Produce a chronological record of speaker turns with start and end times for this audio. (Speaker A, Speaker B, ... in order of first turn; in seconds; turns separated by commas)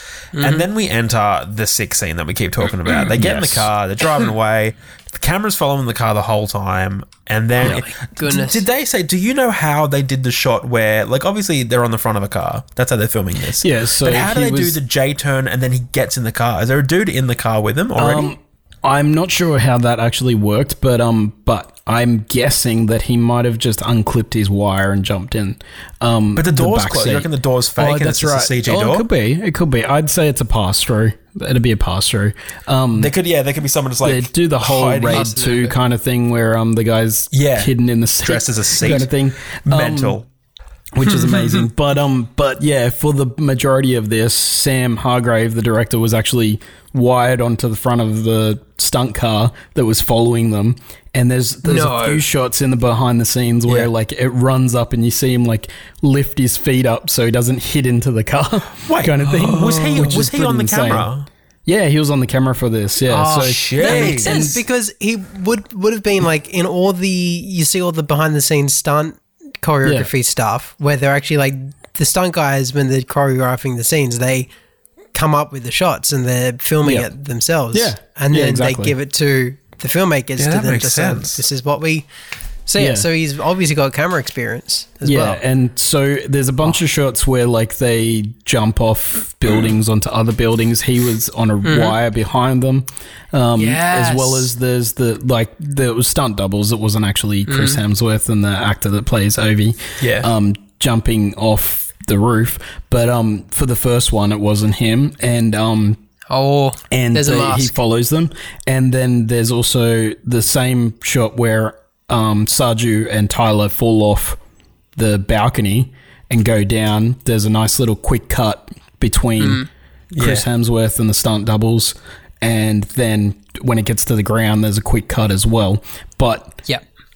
Speaker A: 0.3-0.7, Speaker B: 0.4-18.3, Speaker C: 3.1-3.7, Speaker A: 7.6-8.6, Speaker C: 13.6-14.8, Speaker C: 17.9-33.1, Speaker B: 26.4-29.1, Speaker B: 33.0-35.4, Speaker C: 34.0-40.2, Speaker A: 35.0-35.8, Speaker B: 37.3-37.7, Speaker B: 38.2-39.1, Speaker B: 39.6-40.2, Speaker C: 40.9-61.1, Speaker A: 41.0-41.6, Speaker A: 51.6-52.2, Speaker B: 58.8-61.3, Speaker C: 61.6-64.6, Speaker A: 63.1-74.5, Speaker B: 63.3-64.4, Speaker C: 69.8-70.1, Speaker A: 75.1-82.1, Speaker C: 76.8-77.1, Speaker C: 77.7-79.0, Speaker B: 80.4-81.4, Speaker A: 82.7-85.4, Speaker C: 82.8-83.1, Speaker C: 85.0-106.0, Speaker A: 91.6-92.0, Speaker A: 93.5-94.5, Speaker A: 97.5-97.8, Speaker B: 100.0-100.3, Speaker A: 106.3-107.7, Speaker C: 106.9-114.4, Speaker C: 115.0-119.7, Speaker A: 119.4-119.7, Speaker B: 120.1-120.5, Speaker C: 120.2-126.6